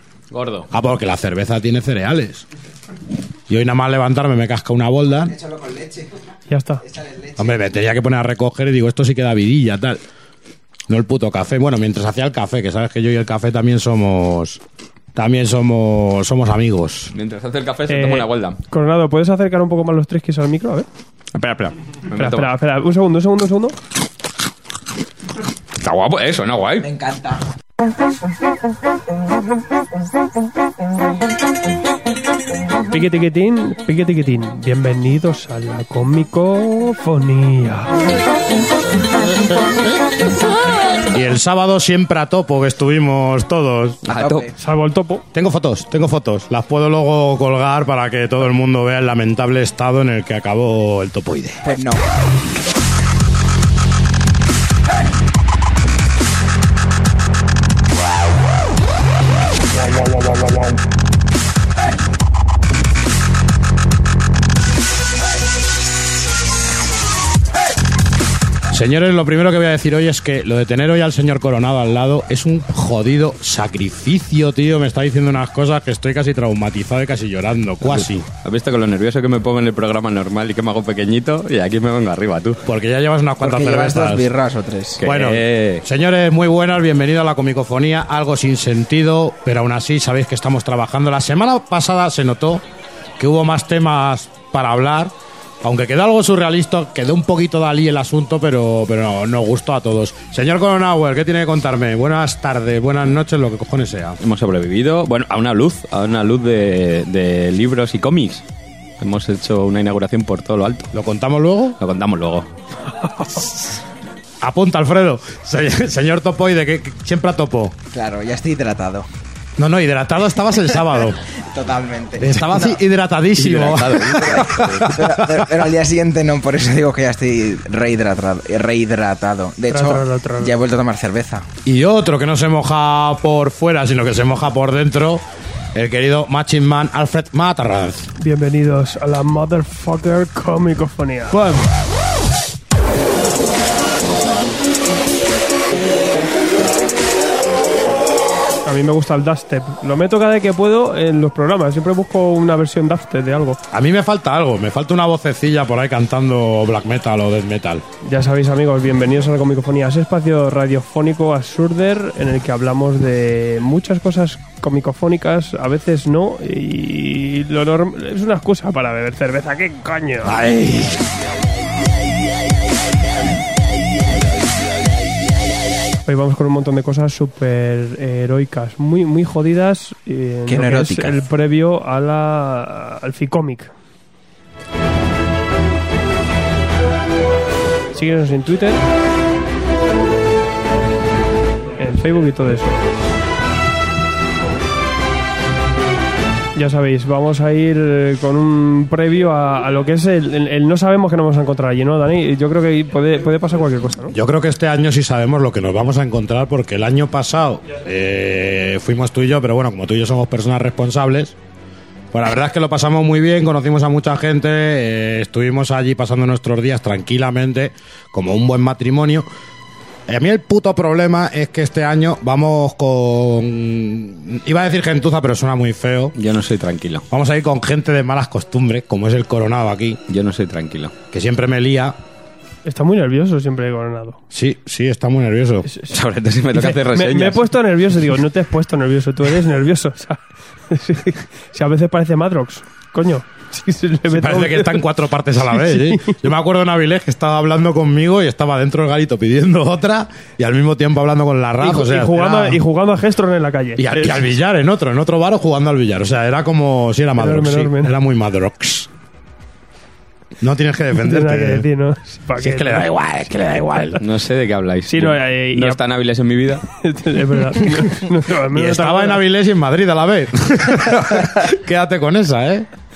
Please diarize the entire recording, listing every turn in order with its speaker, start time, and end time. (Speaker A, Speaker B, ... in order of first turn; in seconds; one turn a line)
Speaker A: 0.3-0.7
Speaker B: 0.7-2.5
Speaker B: 3.5-5.3
Speaker C: 5.3-6.1
Speaker D: 6.5-6.8
Speaker C: 6.8-7.6
Speaker B: 7.4-10.0
Speaker B: 10.9-14.6
Speaker B: 15.1-17.1
Speaker A: 17.1-18.6
Speaker D: 17.9-20.9
Speaker A: 21.3-22.5
Speaker D: 22.1-23.8
Speaker A: 25.8-26.9
Speaker C: 26.8-27.5
Speaker D: 32.9-38.0
Speaker B: 39.0-40.4
Speaker B: 41.0-44.1
Speaker C: 44.0-44.5
Speaker A: 44.0-44.5
Speaker D: 44.6-45.2
Speaker B: 45.3-51.6
Speaker C: 51.6-52.0
Speaker B: 68.7-78.3
Speaker A: 77.9-82.6
Speaker B: 82.6-84.3
Speaker C: 83.4-85.0
Speaker A: 85.0-85.8
Speaker B: 85.0-92.6
Speaker B: 93.2-104.2
Speaker A: 104.2-108.4
Speaker A: 109.0-110.9
Speaker B: 110.9-111.8
Speaker A: 111.8-112.5
Speaker B: 114.4-117.8
Speaker C: 117.9-119.1
Speaker B: 119.6-121.2
Speaker C: 121.3-122.8
Speaker B: 122.2-125.5
Speaker A: 123.4-125.0
Speaker C: 124.2-131.5
Speaker D: 129.7-130.5
Speaker B: 131.6-138.1
Speaker D: 138.2-141.6
Speaker B: 141.3-141.7
Speaker D: 148.6-153.6
Speaker B: 153.7-157.8
Speaker D: 158.0-170.4
Speaker B: 170.2-171.0
Speaker D: 176.1-183.7
Speaker C: 180.5-181.2
Speaker D: 187.9-188.8
Speaker D: 191.8-192.8
Speaker D: 196.5-204.1
Speaker B: 204.1-211.3
Speaker B: 212.1-219.3
Speaker B: 220.1-226.1
Speaker A: 226.1-227.0
Speaker B: 227.1-230.0
Speaker A: 230.1-230.9
Speaker B: 231.1-231.9
Speaker D: 232.6-234.2
Speaker B: 234.3-235.7
Speaker A: 235.9-237.4
Speaker D: 236.5-244.8
Speaker B: 244.1-252.6
Speaker D: 245.5-246.2
Speaker D: 251.6-254.2
Speaker B: 253.8-258.9
Speaker D: 257.2-257.9
Speaker B: 260.4-261.6
Speaker D: 260.9-262.8
Speaker B: 262.4-264.0
Speaker A: 264.0-266.6
Speaker D: 264.9-265.8
Speaker D: 266.8-269.2
Speaker B: 268.5-272.7